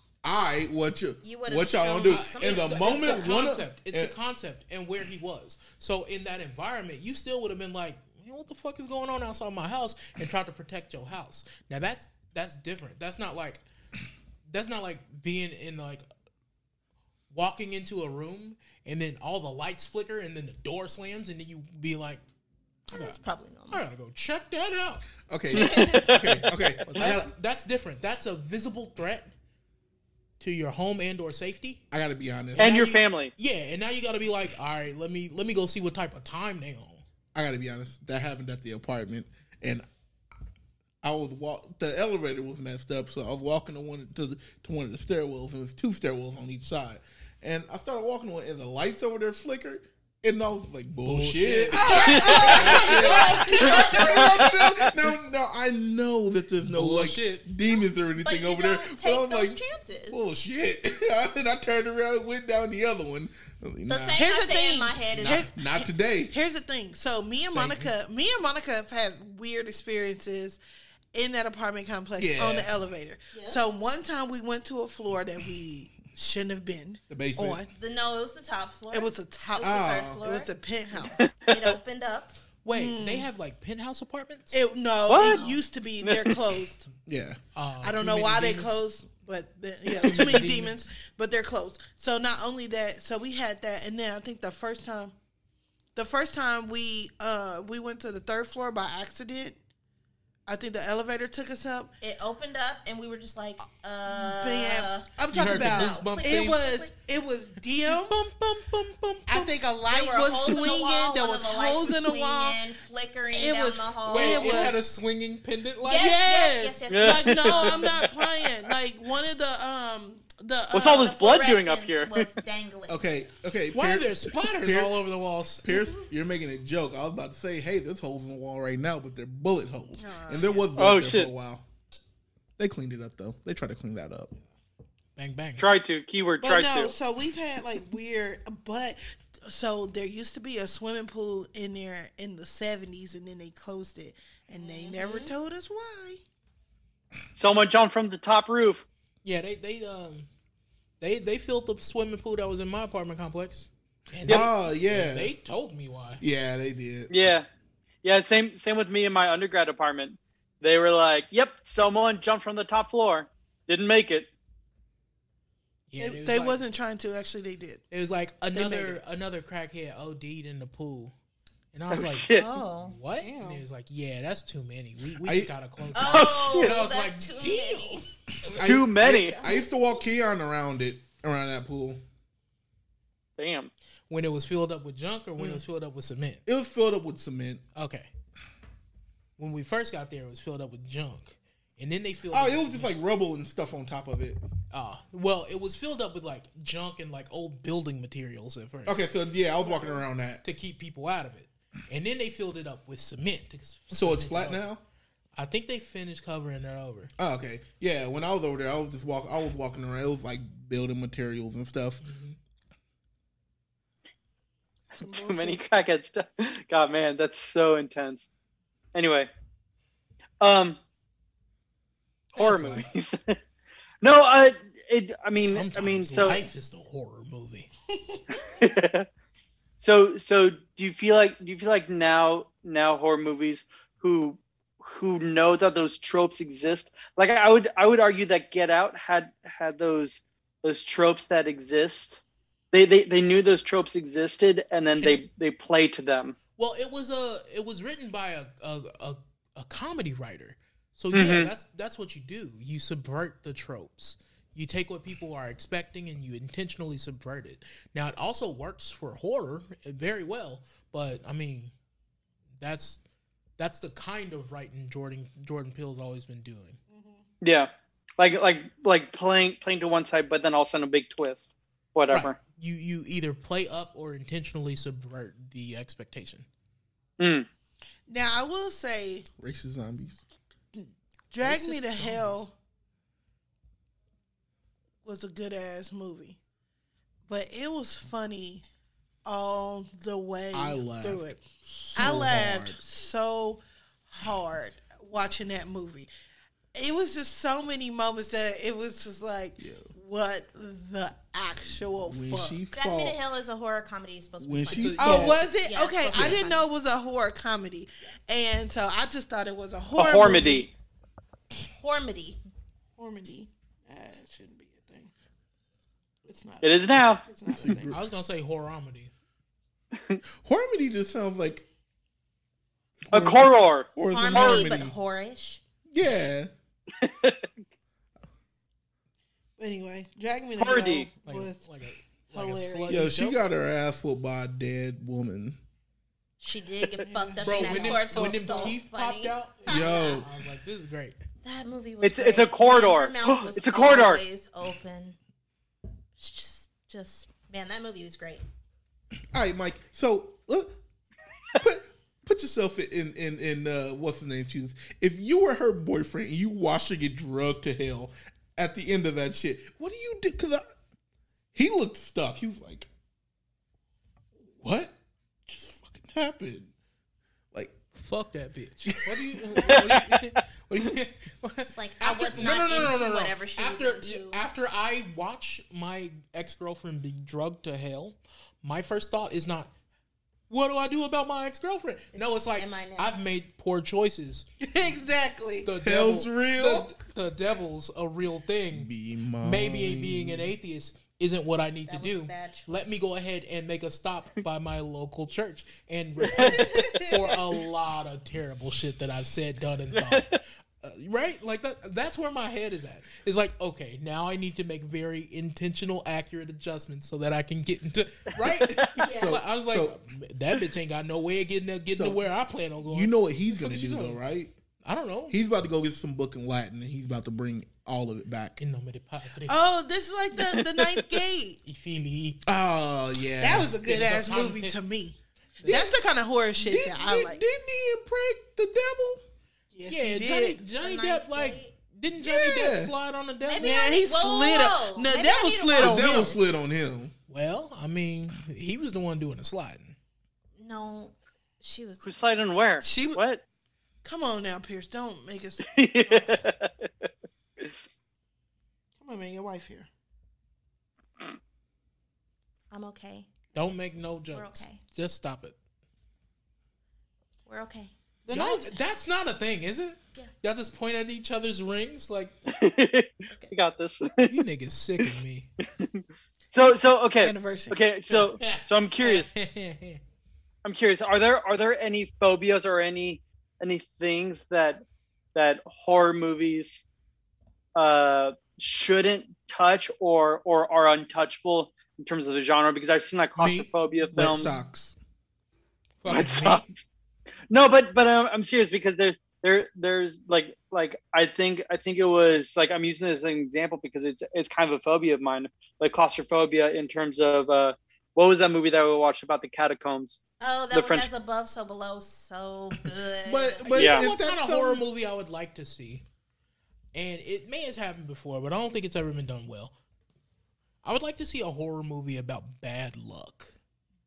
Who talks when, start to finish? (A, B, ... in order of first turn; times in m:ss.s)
0:00.2-0:04.1 A
0:01.2-0:03.5 B
0:02.0-0:13.6 C
0:14.5-0:16.0 C
0:17.3-0:22.2 C
0:22.9-0:23.8 B
0:22.9-0:23.2 C
0:23.7-0:25.1 C
0:25.3-0:27.3 A
0:25.6-0:26.1 B
0:25.7-0:26.4 D
0:26.9-0:29.3 C
0:30.4-0:31.8 C
0:31.9-0:32.8 A
0:32.5-0:37.0 C
0:32.6-0:33.3 D
0:37.3-0:39.8 A
0:41.0-1:04.2 A
0:51.0-0:53.6 C
0:51.7-0:54.2 E
0:52.1-0:52.4 D
0:52.2-0:54.4 B
0:56.6-0:57.5 C
0:57.6-1:00.2 B
1:03.9-1:05.5 B
1:04.2-1:10.6 E
1:05.1-1:06.3 A
1:07.5-1:07.9 A
1:11.1-1:17.7 E
1:12.2-1:12.7 A
1:13.3-1:13.6 B
1:17.1-1:17.6 A
1:17.7-1:20.5 B
1:18.9-1:21.3 E
1:19.6-1:20.3 A
1:21.0-1:22.4 B
1:22.6-1:24.6 C
1:22.7-1:23.3 E
1:24.5-1:26.9 E
1:25.1-1:25.4 D
1:25.1-1:25.6 B
1:26.0-1:26.4 D
1:27.0-1:27.4 A
1:27.6-1:28.7 C
1:27.8-1:35.1 E
1:30.0-1:30.9 C
1:36.0-1:39.6 E
1:40.5-1:41.9 E
1:42.0-1:46.9 B
1:44.1-1:48.2 E
1:45.3-1:46.6 C
1:47.9-1:49.5 C
1:49.3-1:52.6 E
1:49.9-1:54.8 B
1:53.3-1:54.8 E
1:54.0-1:56.2 C
1:55.8-1:58.1 B
1:56.0-2:01.1 E
1:56.9-1:58.5 D
2:00.7-2:02.3 D
2:00.9-2:03.1 B
2:02.9-2:05.0 A
2:03.7-2:05.7 C
2:05.6-2:11.6 A
2:10.0-2:10.7 E
2:10.8-2:11.3 D
2:12.6-2:14.3 A
2:15.2-2:15.7 C
2:15.6-2:16.9 D
2:16.4-2:26.2 E
2:24.6-2:25.3 B
2:27.4-2:28.8 D
2:29.2-2:30.3 C
2:31.0-2:36.2 C
2:34.3-2:35.3 A
2:36.2-2:37.1 A
2:37.1-2:37.5 D
2:38.0-2:44.3 D
2:45.9-2:46.6 C
2:46.0-2:47.8 E
2:47.9-2:51.1 C
2:48.5-2:49.0 E
2:51.7-2:58.1 C
2:51.9-2:52.5 D
2:52.3-2:53.0 B
2:53.2-2:53.6 E
2:55.2-2:55.5 A
2:56.0-2:58.0 B
2:56.1-2:56.8 D
2:58.5-3:02.0 A
2:58.6-2:59.4 D
2:59.0-2:59.7 B
3:03.4-3:03.7 D
3:04.1-3:06.4 C
3:06.4-3:07.6 A
3:07.8-3:08.1 C
3:09.4-3:12.9 C
3:12.3-3:14.4 A
3:14.7-3:19.0 C
3:18.9-3:20.4 A
3:19.7-3:20.0 E
3:20.4-3:24.7 C
3:23.9-3:24.8 A
3:25.4-3:27.1 C
3:27.2-3:32.0 A
3:32.0-3:32.4 C
3:34.9-3:35.6 E
3:35.0-3:38.3 D
3:39.0-3:39.3 D
3:40.4-3:40.8 D
3:42.4-3:43.4 D
3:42.4-3:42.9 C
3:44.0-3:46.4 D
3:45.3-3:47.7 C
3:47.9-3:48.4 E
3:48.5-3:49.1 D
3:49.8-4:06.4 D
4:05.0-4:05.2 C
4:06.6-4:21.7 C
4:11.1-4:11.5 D
4:22.6-4:23.0 C
4:23.6-4:26.8 C
4:26.9-4:27.2 E
4:27.4-4:32.4 D
4:32.1-4:36.5 C
4:37.2-4:37.5 D
4:38.1-4:39.3 E
4:39.4-4:40.2 A
4:40.8-4:42.5 E
4:41.4-4:42.5 C
4:45.0-4:46.4 E
4:47.3-4:48.6 E
4:49.2-4:51.4 E
4:50.5-4:52.8 A
4:52.0-4:56.1 E
4:56.7-5:02.6 E
4:59.6-4:59.9 A
5:02.1-5:03.2 A
5:02.7-5:06.7 B
5:04.4-5:05.4 A
5:04.7-5:05.4 C
5:05.0-5:10.7 E
5:06.1-5:06.4 A
5:10.0-5:10.7 D
5:11.7-5:12.4 B
5:13.0-5:15.1 E
5:16.2-5:18.0 E
5:16.6-5:17.2 D
5:17.5-5:18.0 A
5:17.9-5:19.1 C
5:20.0-5:20.2 D
5:20.4-5:21.7 A
5:23.1-5:25.0 A
5:23.1-5:24.7 D
5:24.1-5:25.6 B
5:25.9-5:26.5 A
5:27.0-5:27.5 D
5:29.6-5:31.7 E
5:30.6-5:31.1 D
5:31.2-5:33.4 C
5:32.3-5:33.0 E
5:32.9-5:35.6 A
5:36.4-5:40.2 B
5:37.0-5:38.8 E
5:37.4-5:41.2 C
5:39.7-5:40.3 A
5:41.4-5:45.2 B
5:42.0-5:44.2 D
5:46.2-5:48.4 B
5:49.3-5:50.8 A
5:51.6-6:00.6 A
6:01.5-6:02.9 A
6:04.6-6:06.7 A
6:08.0-6:19.7 C
6:09.7-6:10.0 D
6:11.6-6:14.4 B
6:12.3-6:12.9 A
6:20.5-6:24.5 C
6:22.1-6:23.2 B
6:24.6-6:25.7 E
6:25.6-6:28.9 C
6:25.8-6:26.9 A
6:28.7-6:30.5 A
6:29.4-6:54.2 C
6:31.9-6:32.9 B
6:36.3-6:37.3 E
6:39.9-6:40.4 D
6:49.0-6:49.4 B
6:49.1-6:50.0 A
6:51.9-6:52.3 A
6:52.8-6:54.5 A
6:54.8-6:55.4 C
6:55.3-6:58.6 A
6:58.6-6:59.6 C
6:59.4-7:01.6 E
7:01.6-7:02.4 C
7:02.4-7:03.8 A
7:03.4-7:07.4 E
7:03.5-7:04.8 C
7:05.6-7:05.9 C
7:06.6-7:09.2 A
7:09.7-7:10.6 E
7:09.9-7:13.8 C
7:10.7-7:11.7 B
7:12.2-7:12.9 A
7:13.4-7:16.4 B
7:13.6-7:16.4 E
7:15.8-7:17.1 A
7:17.3-7:20.0 C
7:20.6-7:22.5 B
7:22.0-7:23.4 D
7:22.8-7:23.2 E
7:24.0-7:26.4 E
7:25.7-7:26.9 D
7:29.0-7:29.9 E
7:32.7-7:33.3 B
7:33.6-7:35.6 C
7:34.3-7:34.8 B
7:37.5-7:37.9 B
7:38.2-7:38.7 E
7:38.3-7:42.4 C
7:42.5-7:44.4 D
7:44.3-7:45.5 C
7:45.6-7:49.3 D
7:47.2-7:47.8 E
7:48.1-7:50.0 C
7:50.6-7:54.8 D
7:55.4-7:56.8 D
7:57.8-8:04.5 D
8:03.4-8:04.5 C
8:04.2-8:05.0 A
8:06.0-8:06.6 C
8:06.1-8:06.8 D
8:07.5-8:21.1 D
8:20.4-8:23.8 B
8:23.2-8:24.8 A
8:23.7-8:26.0 C
8:23.8-8:24.1 D
8:26.9-8:29.8 C
8:30.8-8:33.5 C